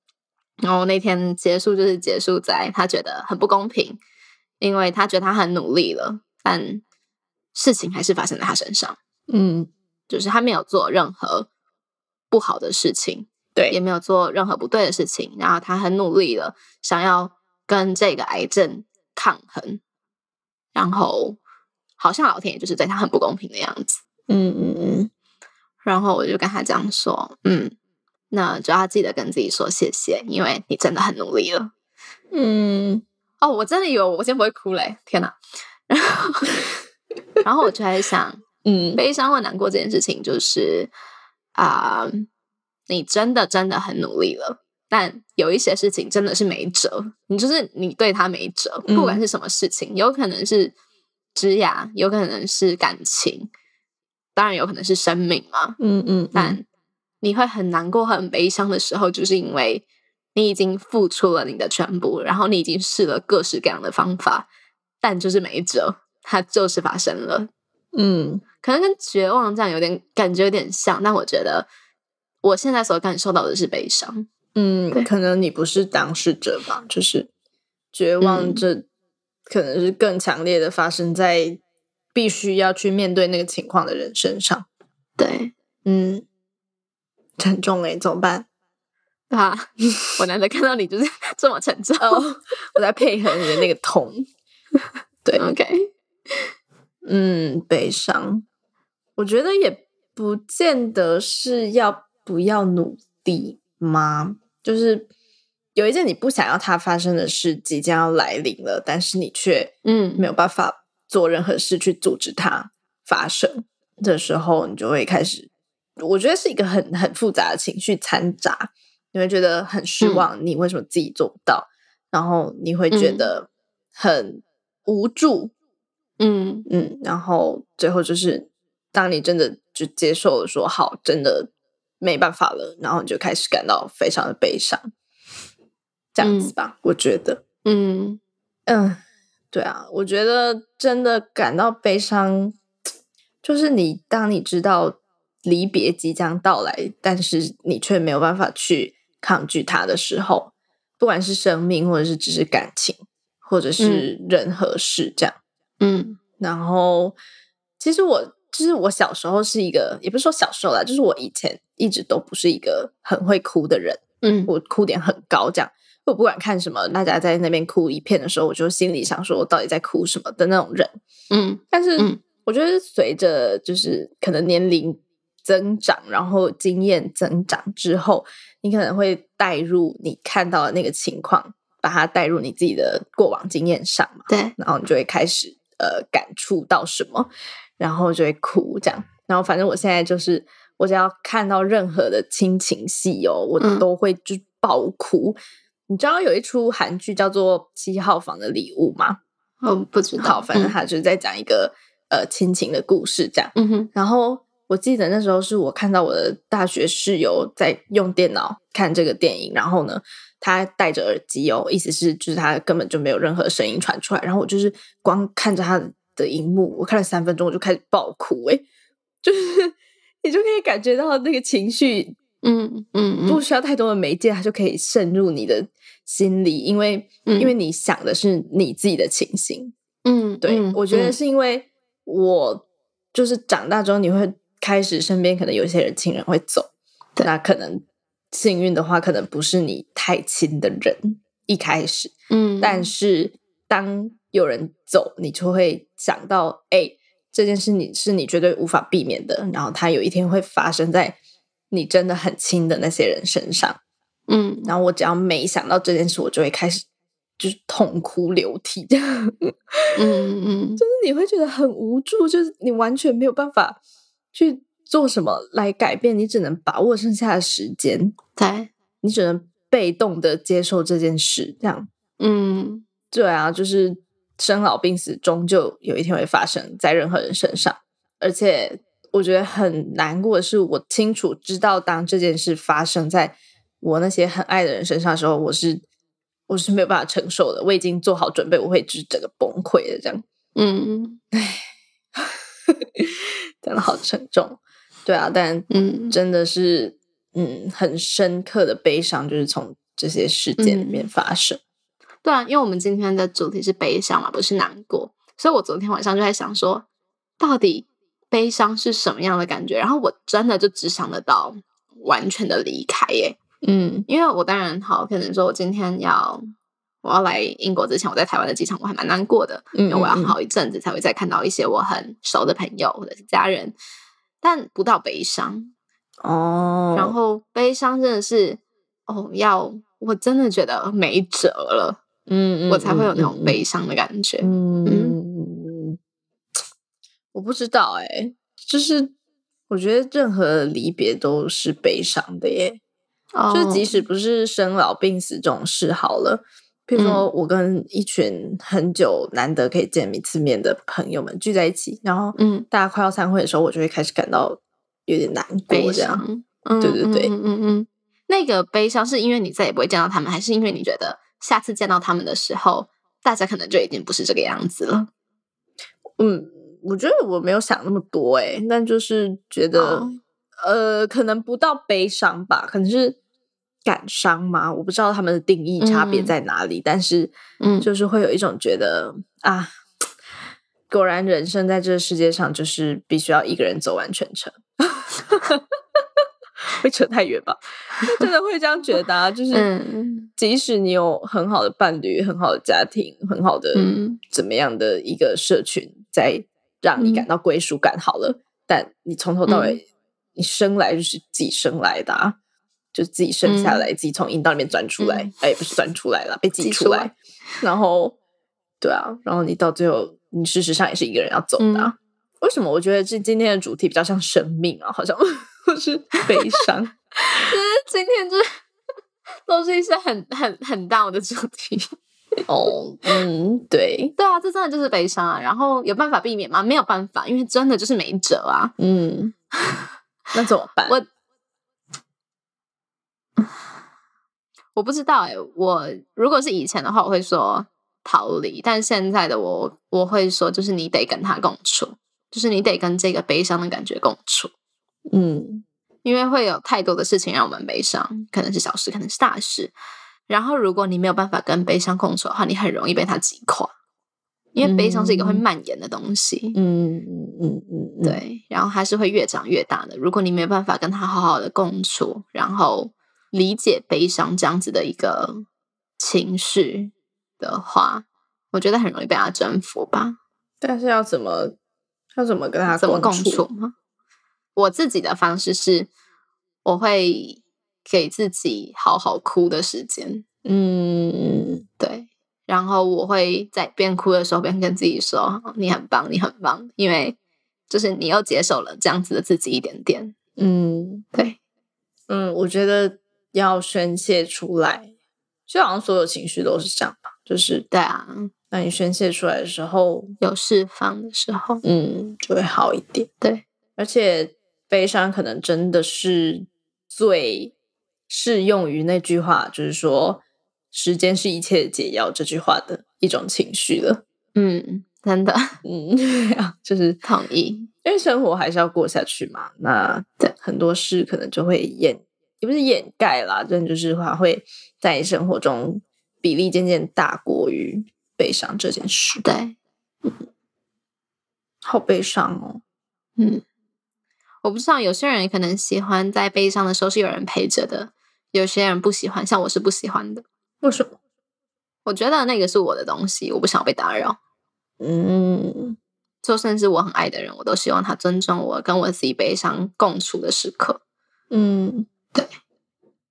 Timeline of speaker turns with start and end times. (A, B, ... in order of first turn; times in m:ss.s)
0:00.6-0:04.0 A
0:04.6-0:06.8 A
0:07.5-0:09.0 A
0:09.3-0:09.7 B
0:10.1-0:11.5 A
0:12.3-0:19.8 A
0:20.7-0:21.4 A
0:22.0-0:24.0 A
0:24.3-0:25.1 B
0:25.8-0:27.7 A
0:28.3-0:31.7 A
0:32.3-0:33.0 B
0:33.4-0:35.4 A
0:35.9-0:36.7 A
0:37.4-0:38.4 A
0:38.6-0:39.0 B
0:39.0-0:40.9 A
0:41.5-0:42.3 A
0:42.9-0:50.7 A
0:48.9-0:49.2 B
0:51.3-0:53.5 A
0:54.4-0:55.8 A
0:55.8-0:56.6 B
0:56.3-0:56.6 A
0:57.2-1:04.5 A
1:05.0-1:07.5 A
1:07.9-1:08.4 B
1:08.6-1:11.7 A
1:12.4-1:14.3 A
1:14.5-1:17.3 B
1:17.9-1:18.8 B
1:18.2-1:18.6 A
1:19.5-1:21.6 B
1:22.1-1:24.6 B
1:25.2-1:25.5 A
1:25.8-1:26.2 B
1:27.4-1:28.5 B
1:29.3-1:32.2 A
1:32.0-1:34.3 B
1:35.3-1:36.4 A
1:37.0-1:38.4 B
1:39.2-1:45.1 B
1:45.7-2:05.5 B
1:49.8-1:50.3 A
2:02.9-2:03.3 A
2:06.2-2:06.7 A
2:06.7-2:14.9 B
2:16.1-2:17.4 B
2:16.2-2:16.5 A
2:17.6-2:18.2 A
2:18.7-2:22.6 B
2:23.4-2:35.4 B
2:33.8-2:34.0 A
2:35.8-2:36.2 A
2:36.4-2:37.2 B
2:37.8-2:51.0 B
2:44.2-2:44.5 A
2:51.3-2:52.2 A
2:51.7-3:19.2 B
3:04.3-3:04.5 A
3:13.6-3:13.8 A
3:19.6-3:20.8 A
3:20.2-3:38.6 B
3:23.6-3:23.9 A
3:39.2-3:42.2 B
3:42.4-3:43.4 A
3:43.3-3:49.7 B
3:47.3-3:47.5 A
3:50.0-3:51.2 A
3:50.4-3:56.7 B
3:57.2-4:11.2 B
4:02.3-4:02.9 A
4:11.7-4:13.8 B
4:14.3-4:14.7 A
4:14.6-4:16.8 B
4:17.4-4:20.0 B
4:20.0-4:20.8 A
4:20.8-4:23.8 B
4:24.3-4:28.1 B
4:28.4-4:28.7 A
4:29.0-4:31.9 B
4:32.2-4:32.8 A
4:33.1-4:45.8 B
4:46.5-4:50.2 B
4:50.5-4:51.2 A
4:51.3-4:51.6 B
4:52.8-5:01.6 B
4:55.7-4:56.2 A
5:00.6-5:01.1 A
5:02.2-5:06.8 A
5:07.4-5:13.4 A
5:13.6-5:14.1 B
5:14.1-5:16.4 A
5:17.0-5:23.7 A
5:19.7-5:20.4 B
5:24.4-5:25.7 A
5:26.2-5:27.2 B
5:26.9-5:32.0 A
5:32.3-5:33.6 B
5:32.7-5:35.2 A
5:34.4-5:36.0 B
5:37.3-5:39.1 B
5:39.7-5:42.8 B
5:43.3-5:43.9 A
5:43.5-5:56.2 B
5:46.9-5:47.3 A
5:52.4-5:52.7 A
5:55.7-6:05.1 A
5:56.8-5:57.3 B
6:06.2-6:10.1 B
6:09.7-6:10.2 A
6:10.6-6:13.2 B
6:13.8-6:19.7 B
6:15.8-6:16.3 A
6:17.6-6:17.9 A
6:20.9-6:25.6 B
6:26.8-6:29.7 B
6:29.5-6:30.3 A
6:30.4-6:39.8 B
6:33.7-6:34.2 A
6:37.0-6:37.3 A
6:39.4-6:39.8 A
6:40.4-6:42.4 B
6:42.9-6:48.2 B
6:43.4-6:43.8 A
6:45.0-6:45.3 A
6:46.6-6:47.1 A
6:48.8-6:56.9 B
6:51.6-6:51.9 A
6:57.3-6:58.6 A
6:59.4-7:01.9 A
7:02.5-7:04.1 B
7:04.2-7:08.7 A
7:08.8-7:09.3 B
7:09.6-7:09.9 A
7:10.3-7:11.0 B
7:14.8-7:24.5 A
7:25.1-7:25.6 B
7:26.0-7:29.7 A
7:30.3-7:33.7 A
7:34.6-7:36.6 A
7:34.6-7:35.4 B
7:36.5-7:38.2 B
7:38.0-7:45.4 A
7:46.0-7:50.2 A
7:50.6-7:51.6 B
7:52.2-7:53.4 B
7:52.7-7:53.7 A
7:54.6-7:55.9 A
7:56.6-8:00.2 A
8:00.4-8:01.6 B
8:01.8-8:07.2 A
8:07.7-8:10.1 A
8:10.4-8:11.0 B
8:12.1-8:14.9 B
8:15.5-8:17.7 B
8:17.7-8:18.3 A
8:18.5-8:20.1 B
8:20.2-8:21.6 A
8:21.6-8:23.1 B
8:23.8-8:27.5 B
8:28.1-8:34.0 B
8:34.3-8:35.6 A
8:35.6-8:37.0 B
8:37.0-8:37.7 A
8:37.8-8:49.2 B
8:49.2-8:49.5 A
8:51.6-8:52.6 B
8:53.2-8:53.4 A
8:54.4-9:00.2 A
9:00.6-9:01.0 B
9:01.8-9:04.2 A
9:04.8-9:05.8 B
9:06.2-9:10.8 A
9:11.3-9:11.9 B